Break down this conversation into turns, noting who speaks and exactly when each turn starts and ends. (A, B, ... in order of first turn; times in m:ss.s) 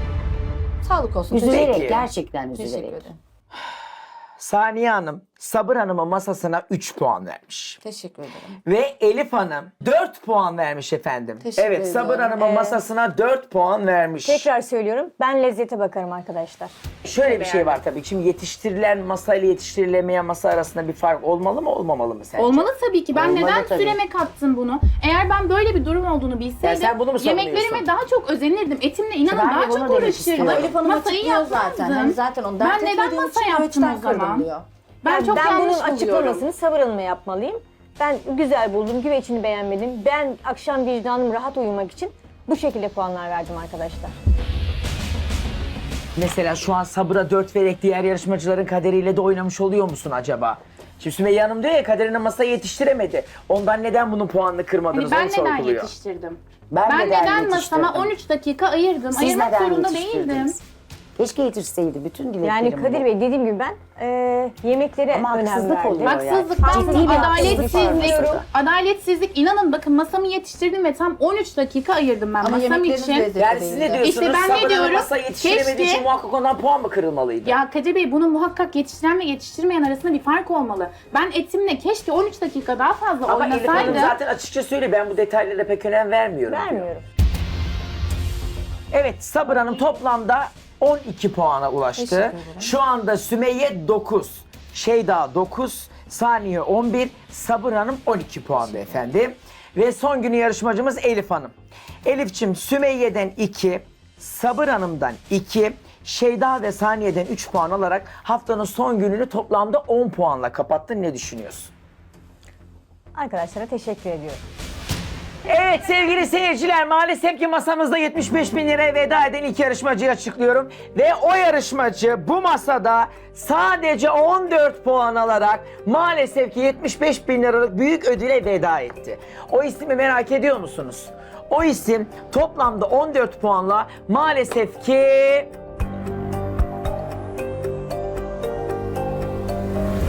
0:00.8-0:01.8 A
0:01.3-0:03.0 B
0:01.4-0:02.0 C
0:02.6-0:03.2 A
0:04.4-0:07.8 C
0:07.8-0:08.6 A
0:08.7-0:14.5 C
0:11.4-0:12.4 A
0:12.4-0:12.8 D
0:14.2-0:16.7 D
0:17.0-0:22.7 C
0:17.3-0:17.8 D
0:22.4-0:34.5 E
0:23.1-0:24.0 B
0:26.6-0:27.9 C
0:29.3-0:30.8 B
0:30.4-0:34.7 A
0:35.0-0:36.5 E
0:35.1-0:44.2 D
0:46.2-0:55.9 C
0:54.9-1:00.6 E
0:56.7-0:58.1 B
0:59.1-1:00.6 B
1:01.2-1:03.1 B
1:02.4-1:08.4 D
1:05.1-1:08.5 B
1:06.0-1:13.3 E
1:12.4-1:14.0 A
1:13.4-1:17.6 C
1:14.0-1:16.0 E
1:17.4-1:24.2 E
1:23.3-1:26.9 C
1:23.7-1:24.0 D
1:26.5-1:27.0 D
1:28.9-1:41.5 C
1:42.0-1:51.7 C
1:53.1-1:54.4 D
1:55.4-2:15.5 C